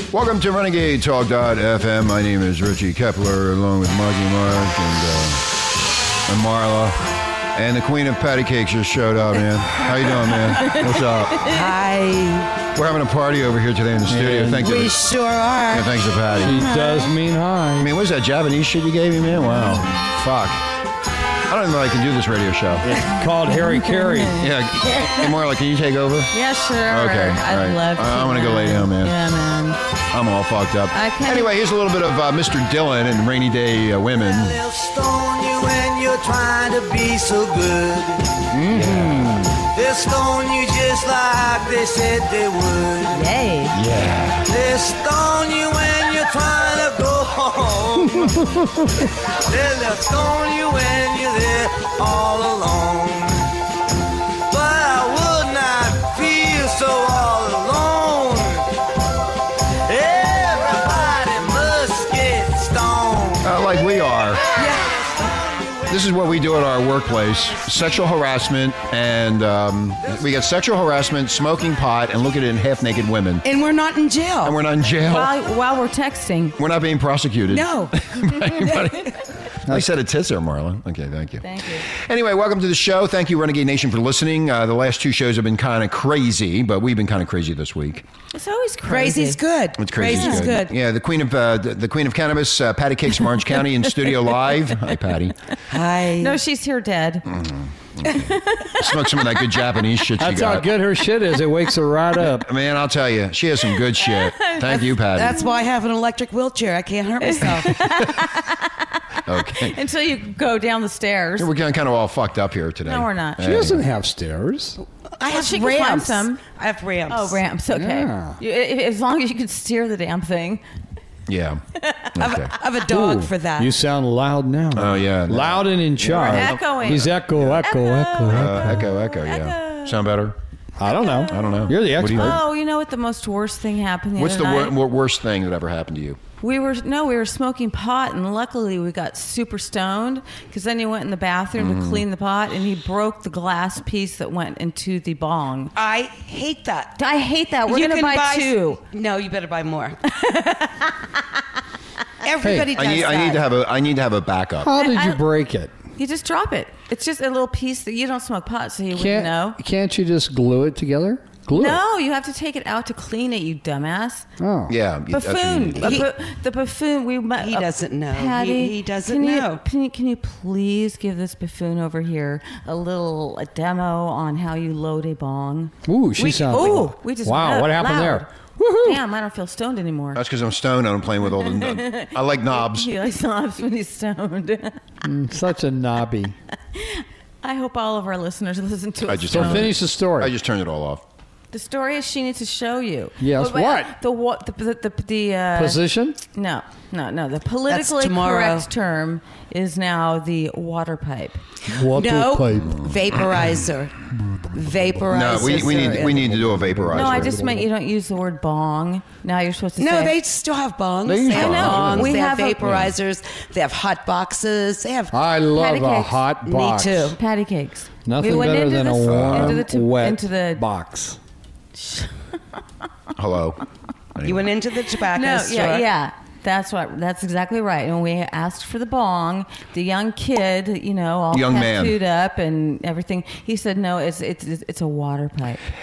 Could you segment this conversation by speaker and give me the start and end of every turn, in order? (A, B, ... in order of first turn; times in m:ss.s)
0:00.1-0:05.5 A
0:06.3-0:07.0 A
0:07.6-0:11.5 A
0:09.9-0:11.6 B
0:11.5-0:12.5 C
0:12.7-0:15.0 A
0:14.1-0:14.7 D
0:14.6-0:15.9 C
0:15.7-0:16.6 A
0:16.4-0:17.9 D
0:16.6-0:17.1 B
0:17.8-0:20.6 A
0:21.5-0:23.0 A
0:22.8-0:24.4 D
0:23.5-0:25.2 B
0:24.4-0:26.3 A
0:26.3-0:29.8 B
0:26.9-0:29.2 A
0:30.1-0:34.6 A
0:30.9-0:31.5 B
0:34.2-0:38.2 E
0:38.5-0:39.5 D
0:38.7-0:39.5 A
0:39.6-0:43.2 E
0:43.1-0:43.8 B
0:43.7-0:44.4 A
0:44.5-0:48.5 E
0:49.3-0:53.4 E
0:54.5-0:58.7 E
0:59.9-1:03.6 E
1:03.4-1:04.4 A
1:04.4-1:06.1 E
1:04.6-1:04.9 C
1:05.9-1:13.4 A
1:13.4-1:14.6 C
1:14.4-1:15.3 A
1:15.0-1:16.6 B
1:16.6-1:28.1 A
1:17.5-1:18.0 C
1:21.4-1:21.9 B
1:28.3-1:29.4 B
1:28.8-1:30.7 C
1:29.8-1:35.4 A
1:30.0-1:30.4 B
1:35.7-1:36.4 C
1:36.2-1:37.3 B
1:37.3-1:40.7 A
1:38.1-1:38.9 B
1:40.2-1:42.5 D
1:42.4-1:45.4 A
1:44.0-1:44.9 B
1:45.1-1:48.1 C
1:47.2-1:51.5 B
1:49.3-1:49.8 A
1:51.4-1:53.8 A
1:52.9-1:53.5 B
1:53.4-1:54.8 D
1:55.2-1:57.4 C
1:55.3-1:56.4 B
1:57.1-2:00.6 B
1:57.7-1:58.4 D
2:01.3-2:01.6 A
2:01.8-2:02.1 B
2:02.2-2:02.5 A
2:02.2-2:03.7 C
2:02.9-2:08.8 D
2:04.7-2:06.6 A
2:06.1-2:10.0 B
2:08.3-2:10.4 A
2:10.8-2:12.4 D
2:11.0-2:11.3 B
2:11.3-2:12.4 A
2:12.1-2:14.8 B
2:14.2-2:16.2 A
2:16.4-2:25.7 B
2:21.6-2:22.0 A
2:25.8-2:27.0 C
2:27.0-2:28.8 B
2:27.7-2:30.0 C
2:30.1-2:31.1 B
2:32.2-2:33.4 C
2:32.4-2:32.7 D
2:32.7-2:34.7 A
2:34.6-2:35.7 D
2:34.7-2:35.2 B
2:36.0-2:39.6 B
2:39.0-2:41.8 D
2:41.5-2:44.3 B
2:44.4-2:44.7 D
2:44.7-2:46.0 A
2:45.1-2:55.7 B
2:45.8-2:46.1 C
2:47.4-2:49.6 C
2:55.9-2:59.0 D
2:56.2-2:56.9 C
2:56.5-2:58.3 B
2:58.8-3:00.2 B
3:00.1-3:02.9 A
3:01.4-3:04.8 B
3:05.0-3:06.4 D
3:06.7-3:09.7 B
3:09.1-3:11.0 A
3:09.3-3:10.3 D
3:11.5-3:15.8 B
3:13.2-3:13.9 D
3:15.6-3:16.2 D
3:16.3-3:21.4 B
3:17.7-3:18.7 C
3:21.7-3:22.8 D
3:21.8-3:23.9 C
3:24.5-3:26.3 C
3:25.1-3:27.4 A
3:25.5-3:27.7 D
3:26.9-3:30.2 B
3:29.8-3:35.1 C
3:31.0-3:32.9 A
3:31.3-3:32.7 B
3:35.1-3:37.2 D
3:35.6-3:36.2 B
3:36.4-3:37.2 C
3:37.2-3:40.6 B
3:38.1-3:41.2 D
3:39.0-3:39.6 A
3:41.8-3:42.1 B
3:43.2-3:43.6 A
3:44.2-3:44.5 A
3:44.2-3:45.9 C
3:45.1-3:55.6 B
3:51.3-3:52.0 A